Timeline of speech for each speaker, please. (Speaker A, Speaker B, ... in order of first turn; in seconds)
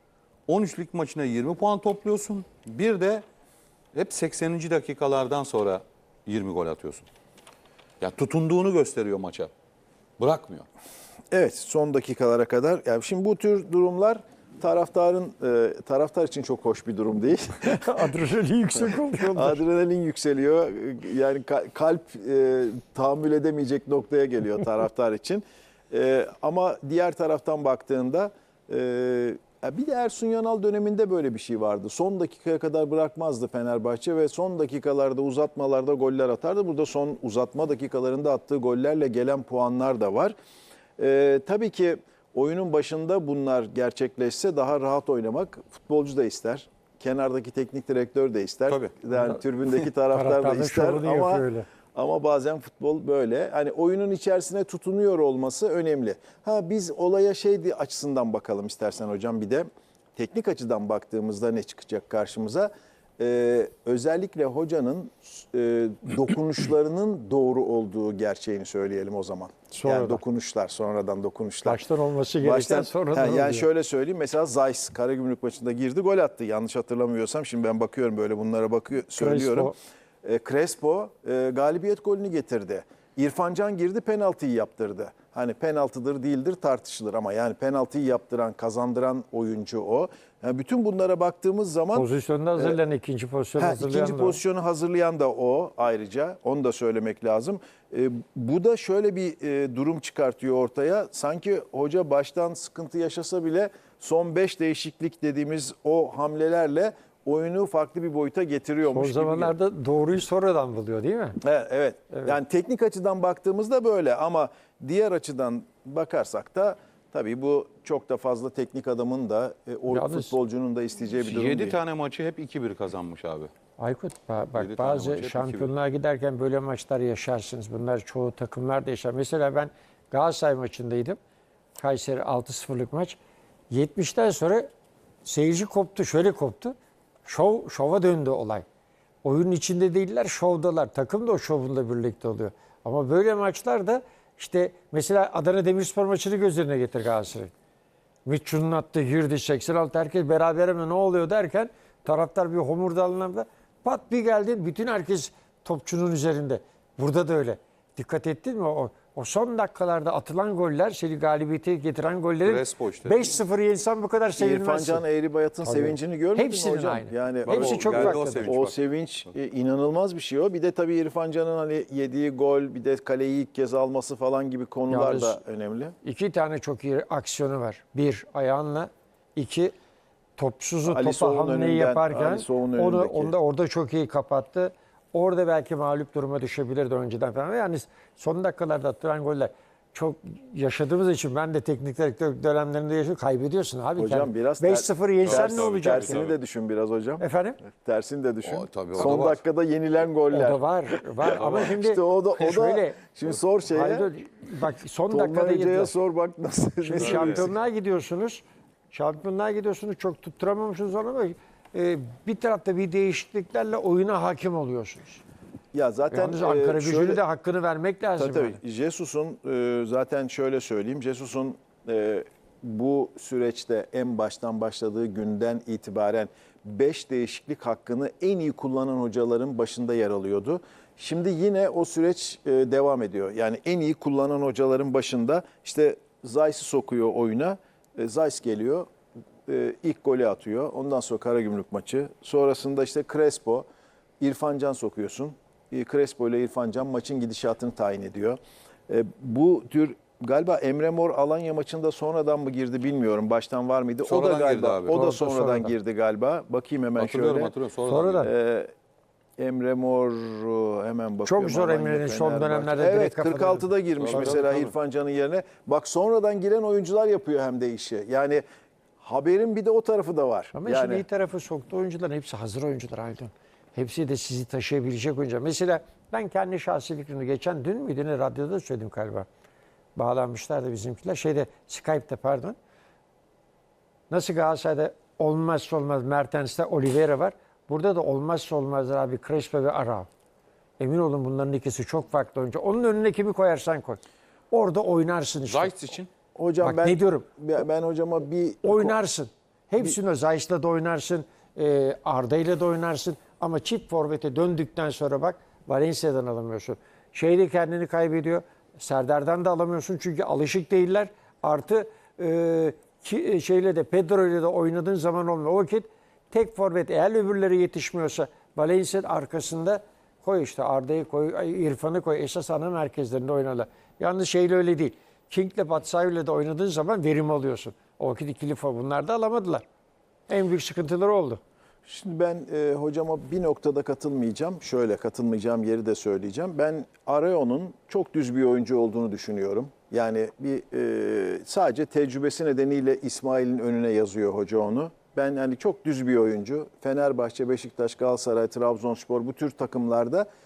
Speaker A: 0.5-3.2, 3.9-7.1, 8.0-9.5, 10.2-10.7, 48.7-48.9, 121.2-123.5, 124.5-125.7, 162.4-163.3, 167.4-168.7, 195.2-196.4, 198.4-199.4, 201.2-201.8, 207.0-207.5, 254.0-255.0, 257.0-258.3, 264.0-264.4, 295.4-296.1
Speaker B: 11.3-18.0, 19.2-40.3, 41.0-71.8, 72.4-92.1, 93.6-109.5, 111.4-121.8, 164.4-175.9, 180.8-183.3, 193.9-204.1, 205.1-207.5, 215.7-217.2, 218.2-238.9, 239.5-243.7, 244.2-257.5, 258.2-258.7, 259.4-268.4, 269.0-271.0, 296.3-299.0, 331.8-350.3
Speaker C: 17.6-19.6, 49.1-51.7, 69.7-70.2, 71.6-73.7, 79.2-79.8, 91.9-94.4, 108.8-111.4, 112.1-112.4, 119.9-120.3, 123.8-131.2, 131.8-133.2, 133.7-134.7, 135.2-138.6, 139.2-147.5, 148.2-165.0, 165.6-168.5, 174.9-175.4, 176.0-179.7, 180.4-196.1, 197.2-197.6, 200.3-203.1, 203.7-205.9, 206.8-215.2, 216.1-218.6, 254.8-255.7, 257.8-258.3, 261.2-264.7, 270.5-279.3, 279.9-282.6, 284.1-290.1, 290.8-294.0, 294.5-295.7, 296.6-297.3, 298.6-329.6, 330.3-331.4